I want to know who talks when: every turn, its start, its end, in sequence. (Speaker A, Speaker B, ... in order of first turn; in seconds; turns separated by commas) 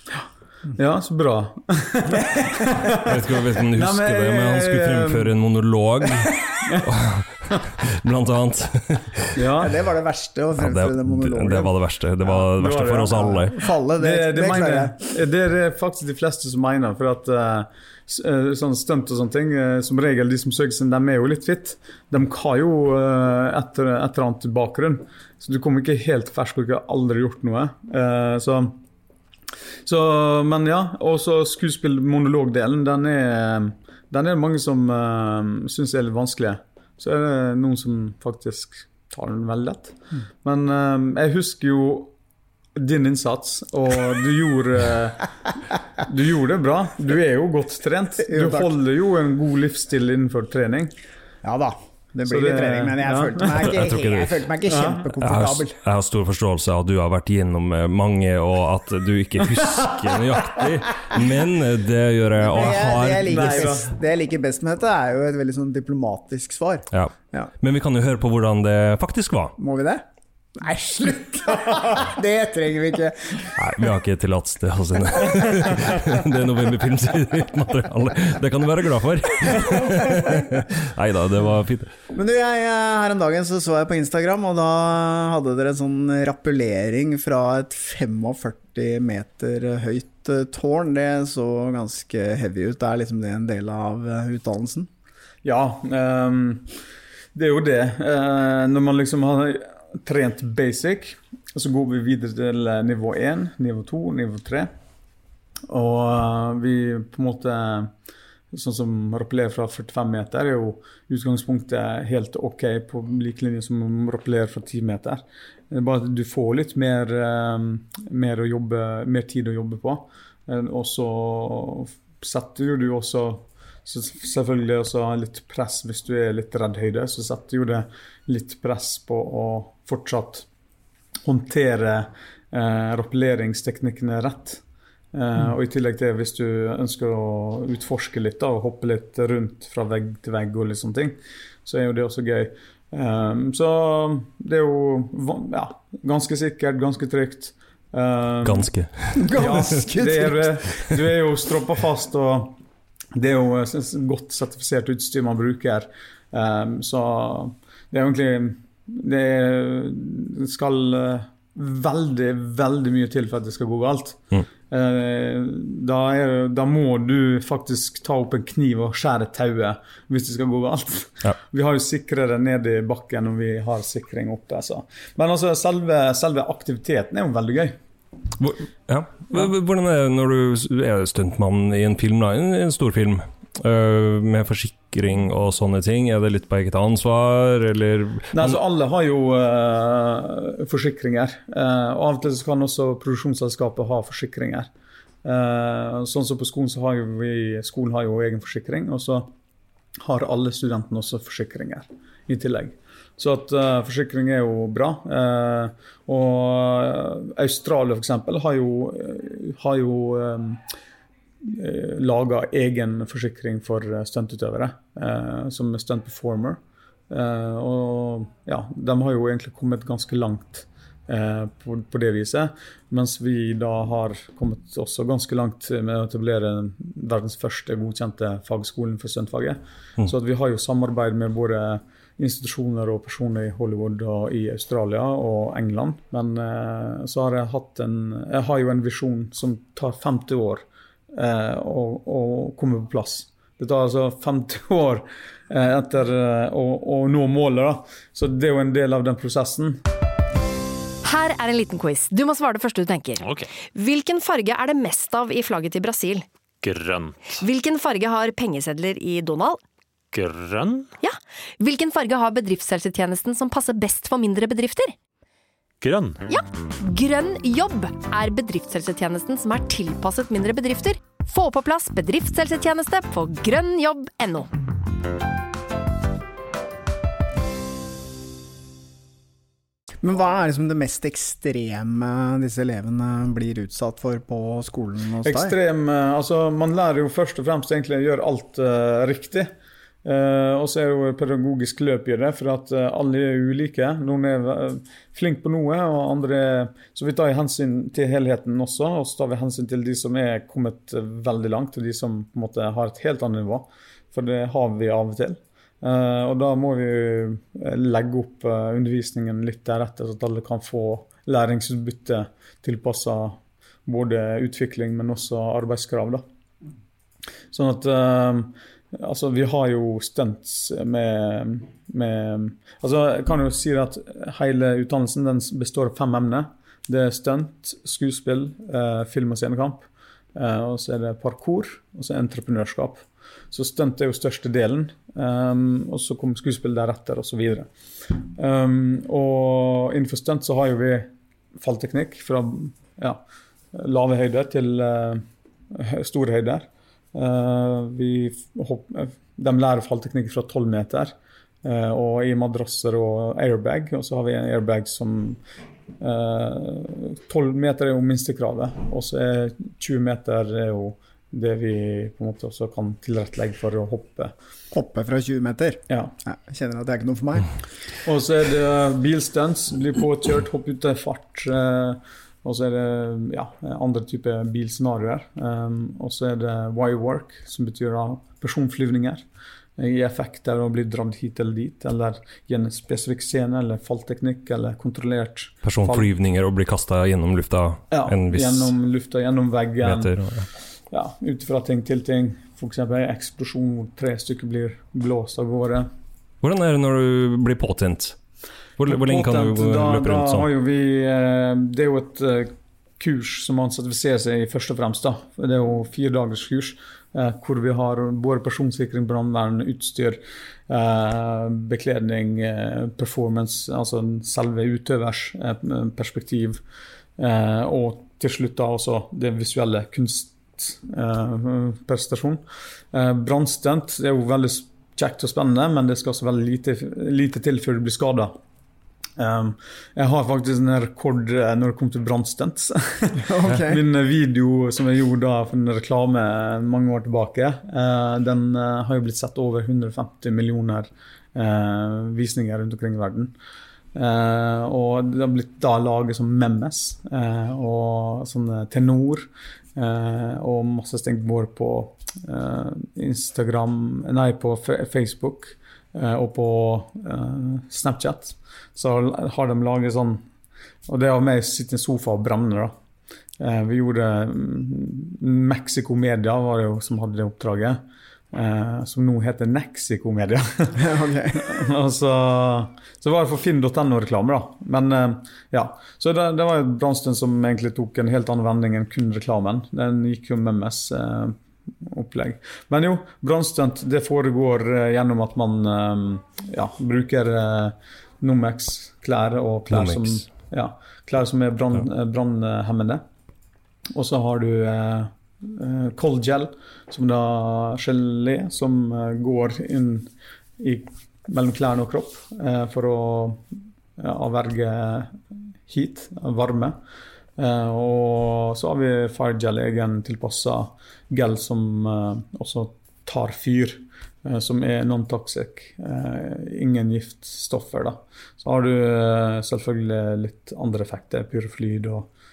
Speaker A: 0.7-5.3, Speaker B: 3.0-9.3, Speaker A: 6.5-6.9, Speaker A: 9.3-9.8, Speaker C: 9.6-11.7, Speaker B: 10.6-13.6, Speaker A: 12.5-28.8, Speaker C: 13.2-15.0, Speaker A: 29.8-42.1, Speaker A: 42.7-45.3, Speaker A: 46.0-50.9, Speaker C: 48.2-48.7, Speaker C: 51.4-55.8, Speaker A: 52.2-53.7, Speaker B: 53.5-54.5, Speaker A: 54.7-55.1, Speaker B: 55.2-63.8, Speaker C: 62.4-67.5, Speaker A: 63.3-63.9, Speaker B: 66.9-69.6, Speaker C: 69.6-73.6, Speaker B: 73.5-81.9, Speaker C: 79.9-80.3, Speaker C: 82.1-94.9, Speaker A: 95.4-96.7, Speaker A: 97.3-104.7, Speaker A: 105.7-107.9, Speaker A: 108.5-130.4, Speaker A: 131.2-134.6, Speaker A: 135.1-148.7, Speaker B: 148.4-149.3, Speaker C: 149.1-150.6, Speaker A: 149.3-152.6, Speaker A: 153.1-177.8, Speaker B: 178.4-188.6, Speaker A: 188.3-194.7, Speaker A: 195.2-199.3, Speaker A: 200.0-210.6, Speaker A: 211.4-216.6, Speaker A: 217.1-249.8, Speaker D: 251.0-256.3, Speaker E: 253.2-253.5, Speaker E: 256.6-257.4, Speaker D: 257.4-259.6, Speaker E: 260.1-260.9, Speaker D: 261.0-264.9, Speaker E: 265.8-266.2, Speaker D: 266.3-274.5, Speaker C: 280.0-285.6, Speaker A: 285.2-289.5, Speaker A: 290.0-316.2, Speaker A: 317.5-337.7, Speaker A: 338.2-343.2, Speaker A: 343.7-355.4, Speaker A: 356.0-364.3, Speaker C: 364.7-367.5, Speaker A: 365.9-366.1, Speaker A: 368.0-379.2, Speaker A: 379.8-386.1, Speaker B: 385.6-388.7, Speaker A: 387.9-390.1, Speaker B: 389.8-390.5, Speaker A: 390.9-395.9, Speaker B: 396.4-398.2, Speaker B: 398.8-400.5, Speaker A: 398.9-416.6, Speaker A: 417.2-428.4, Speaker A: 429.2-443.3, Speaker C: 433.1-433.8, Speaker A: 443.9-460.2, Speaker A: 460.9-462.7, Speaker A: 463.4-467.8, Speaker A: 468.3-493.0, Speaker C: 470.8-471.4, Speaker B: 489.7-490.2, Speaker A: 493.9-503.4, Speaker A: 504.0-505.1, Speaker A: 505.7-506.8, Speaker A: 507.4-522.1